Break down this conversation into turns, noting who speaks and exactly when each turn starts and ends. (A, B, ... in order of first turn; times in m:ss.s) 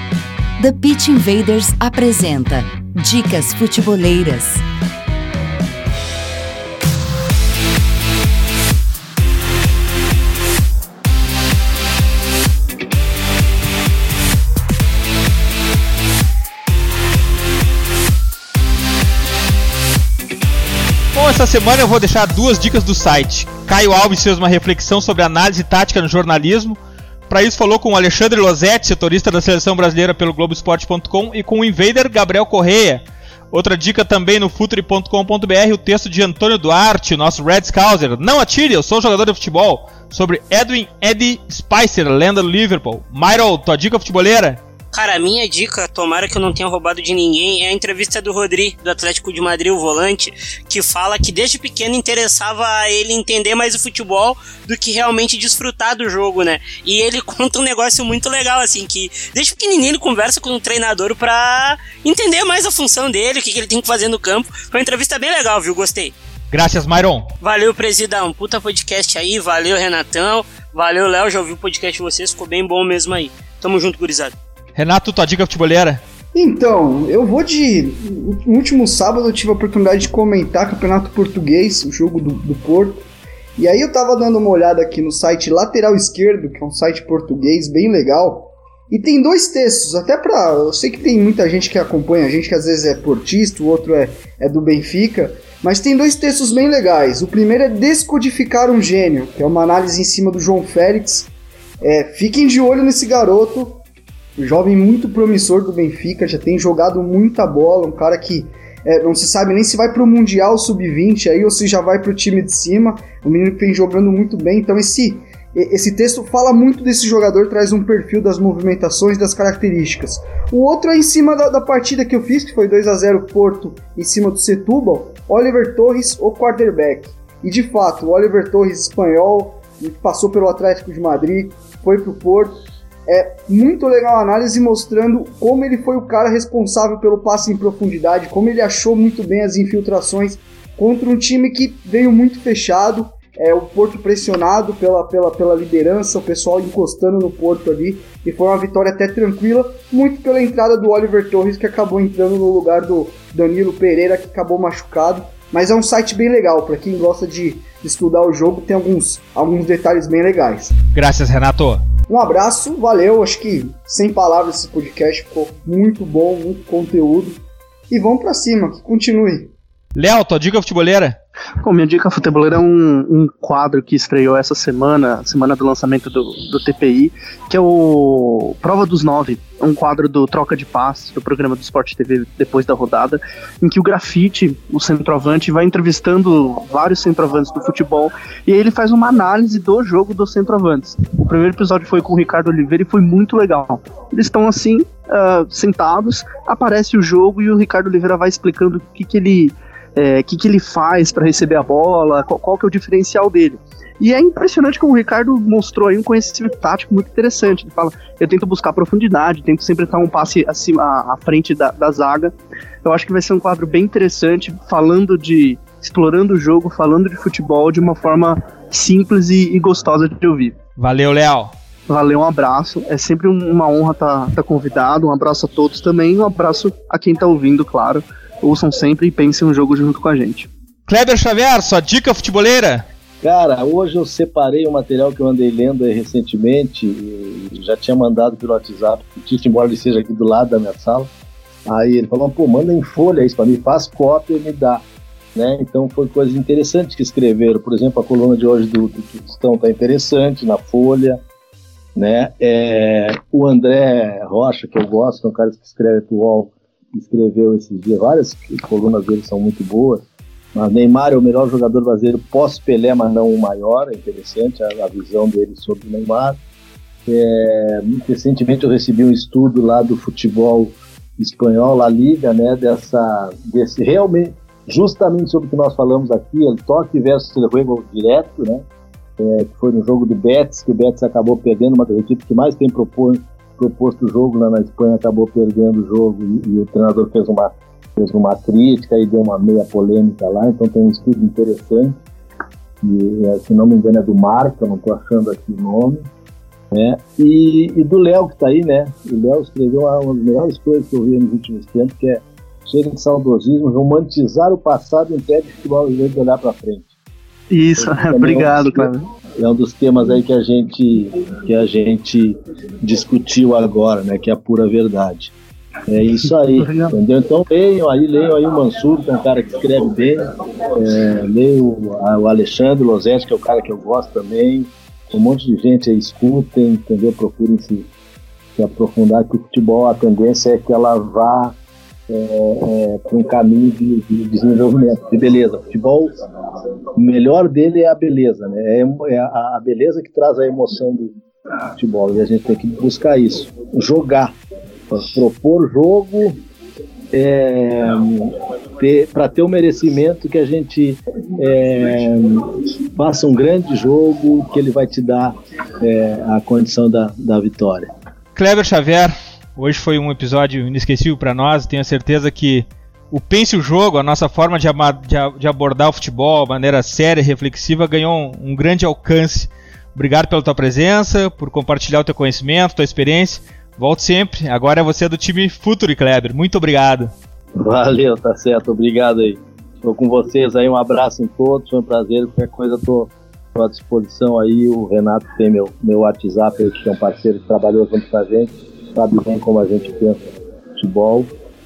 0:00.6-0:04.6 A
0:21.1-0:44.6 B
0:44.9-1:06.1 C
1:06.5-1:07.3 B
1:07.4-1:14.4 C
1:14.7-1:16.0 B
1:16.3-1:23.0 D
1:23.6-1:41.3 D
1:41.8-1:43.8 D
1:44.4-2:12.5 D
2:13.1-2:40.8 D
2:40.9-2:41.8 B
2:42.1-2:49.5 D
2:50.0-2:51.2 B
2:51.6-3:32.3 E
3:32.8-3:40.5 E
3:40.8-3:41.5 B
3:41.9-3:50.5 E
3:50.9-3:52.8 B
3:53.2-4:01.1 F
4:01.7-4:04.8 F
4:05.3-4:11.2 F
4:11.9-4:20.0 F
4:20.5-4:26.4 F
4:27.1-4:38.6 F
4:39.2-4:52.0 F
4:52.8-4:56.1 F
4:56.7-5:06.9 F
5:07.5-5:09.1 E
5:07.8-5:15.3 F
5:15.9-5:20.2 F
5:16.6-5:17.0 E
5:20.7-5:27.9 F
5:28.6-5:31.5 F
5:32.1-5:36.1 F
5:36.9-5:41.1 F
5:41.8-5:44.3 F
5:44.9-5:46.4 F
5:47.1-5:57.9 F
5:58.4-6:17.1 B
6:17.6-6:31.3 F